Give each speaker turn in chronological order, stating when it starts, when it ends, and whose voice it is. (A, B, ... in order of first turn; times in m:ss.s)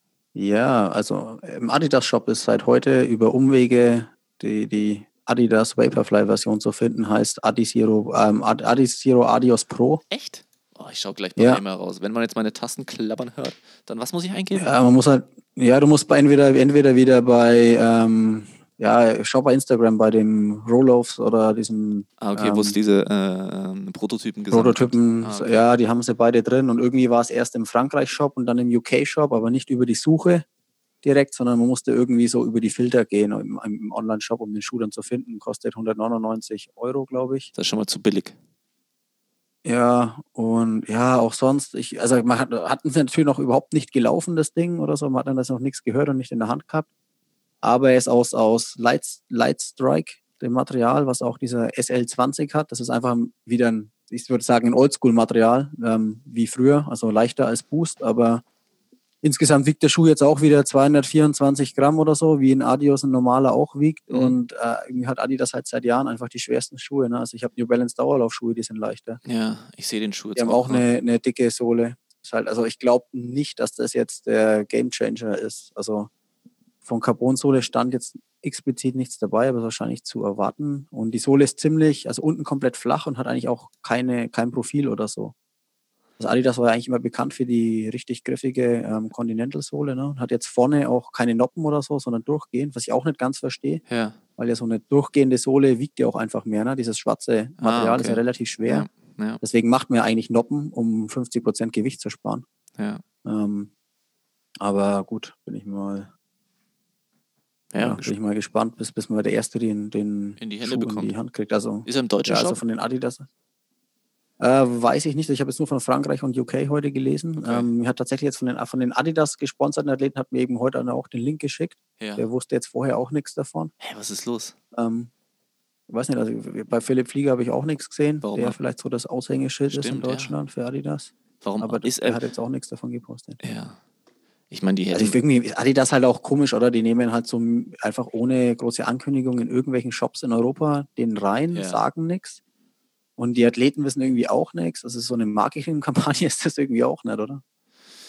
0:00.4-0:10.0 A
0:10.1-0:14.7 B
0:11.4-0:11.6 A
0:14.6-0:22.8 A
0:22.2-0:25.6 B
0:24.5-0:30.4 A
0:31.0-0:37.5 A
0:37.6-0:38.4 B
0:39.6-0:46.9 A
0:47.6-0:58.4 A
0:59.2-1:09.2 A
1:04.1-1:04.4 B
1:09.2-1:10.8 B
1:10.4-1:16.1 A
1:16.8-1:25.4 A
1:26.2-1:33.8 A
1:33.9-1:34.2 B
1:34.4-1:38.9 A
1:37.6-1:39.4 B
1:39.4-1:42.4 A
1:42.8-1:43.0 B
1:43.2-1:43.7 A
1:44.6-1:46.1 A
1:47.7-1:48.1 B
1:47.8-1:53.3 A
1:50.4-1:51.1 B
1:51.8-1:52.6 B
1:54.4-2:03.7 A
1:57.4-1:57.7 B
2:02.0-2:02.3 B
2:03.8-2:04.6 B
2:04.7-2:05.1 A
2:05.9-2:13.4 A
2:08.2-2:08.6 B
2:09.7-2:10.4 B
2:11.4-2:12.2 B
2:13.4-2:13.8 B
2:14.5-2:15.2 B
2:14.9-2:22.4 A
2:21.5-2:21.8 B
2:23.2-2:27.4 A